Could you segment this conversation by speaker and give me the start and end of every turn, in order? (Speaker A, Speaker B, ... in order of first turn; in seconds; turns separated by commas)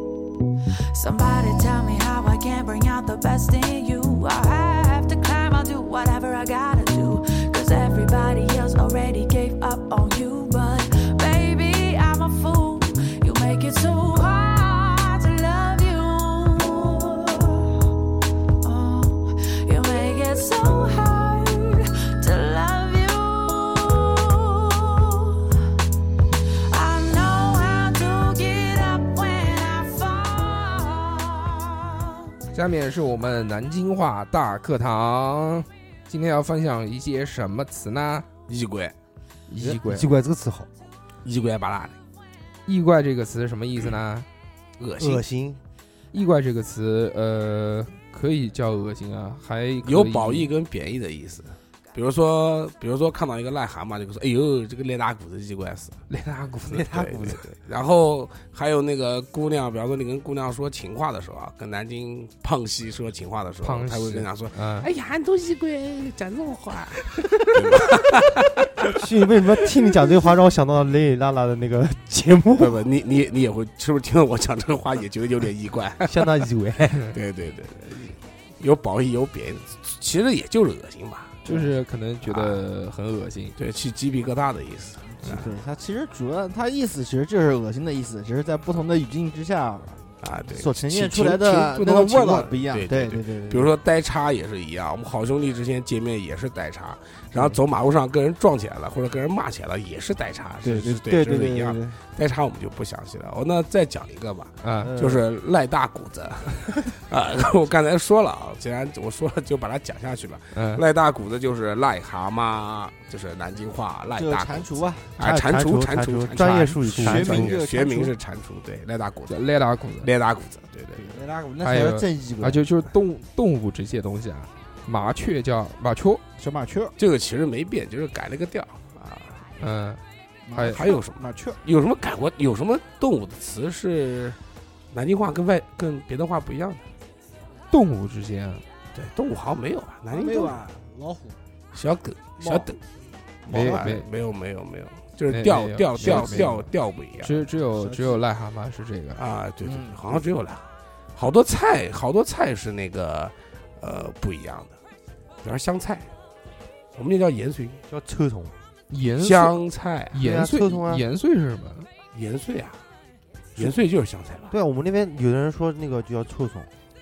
Speaker A: 0.9-17.8, Speaker A: 18.6-25.4, Speaker A: 26.7-31.5, Speaker B: 32.5-38.3, Speaker C: 38.5-38.9, Speaker B: 39.5-40.1, Speaker D: 39.6-40.7, Speaker C: 41.2-42.0, Speaker B: 42.6-44.2, Speaker C: 44.8-45.2, Speaker D: 45.0-45.6, Speaker B: 46.1-50.5, Speaker C: 49.8-56.0, Speaker B: 56.1-56.9, Speaker D: 56.7-57.5, Speaker C: 56.8-69.0, Speaker B: 63.6-64.9, Speaker D: 68.9-72.8, Speaker C: 72.6-76.4, Speaker D: 76.0-77.0, Speaker C: 77.0-81.4, Speaker B: 81.4-83.5, Speaker C: 82.2-82.6, Speaker C: 83.6-85.5, Speaker E: 85.2-90.0, Speaker C: 90.2-119.5, Speaker E: 90.5-93.7, Speaker E: 100.6-102.0, Speaker B: 104.6-105.0, Speaker B: 110.5-110.8, Speaker E: 114.1-115.1, Speaker D: 115.2-117.5, Speaker E: 117.0-118.1, Speaker B: 119.3-120.1, Speaker C: 120.0-121.2, Speaker E: 120.9-122.6, Speaker B: 121.6-126.2, Speaker E: 126.4-126.9, Speaker C: 127.0-129.4, Speaker B: 129.6-130.0, Speaker E: 130.5-131.6, Speaker B: 130.5-130.9, Speaker C: 130.7-134.4, Speaker C: 134.9-136.8, Speaker B: 137.7-138.6, Speaker C: 138.9-140.7, Speaker E: 140.1-141.4, Speaker C: 141.7-142.8, Speaker E: 142.4-142.7, Speaker C: 143.5-147.4, Speaker E: 143.5-143.9, Speaker B: 143.5-144.1, Speaker B: 145.3-146.7, Speaker E: 146.0-146.4, Speaker B: 147.2-149.2, Speaker E: 147.7-148.2, Speaker C: 149.2-154.8, Speaker E: 149.6-150.2, Speaker C: 155.4-156.1, Speaker C: 156.9-157.8, Speaker D: 157.9-158.5, Speaker B: 158.9-159.6, Speaker C: 159.2-160.2, Speaker B: 160.1-161.9, Speaker D: 160.2-161.0, Speaker C: 162.1-162.8, Speaker C: 163.6-164.5, Speaker D: 164.5-166.7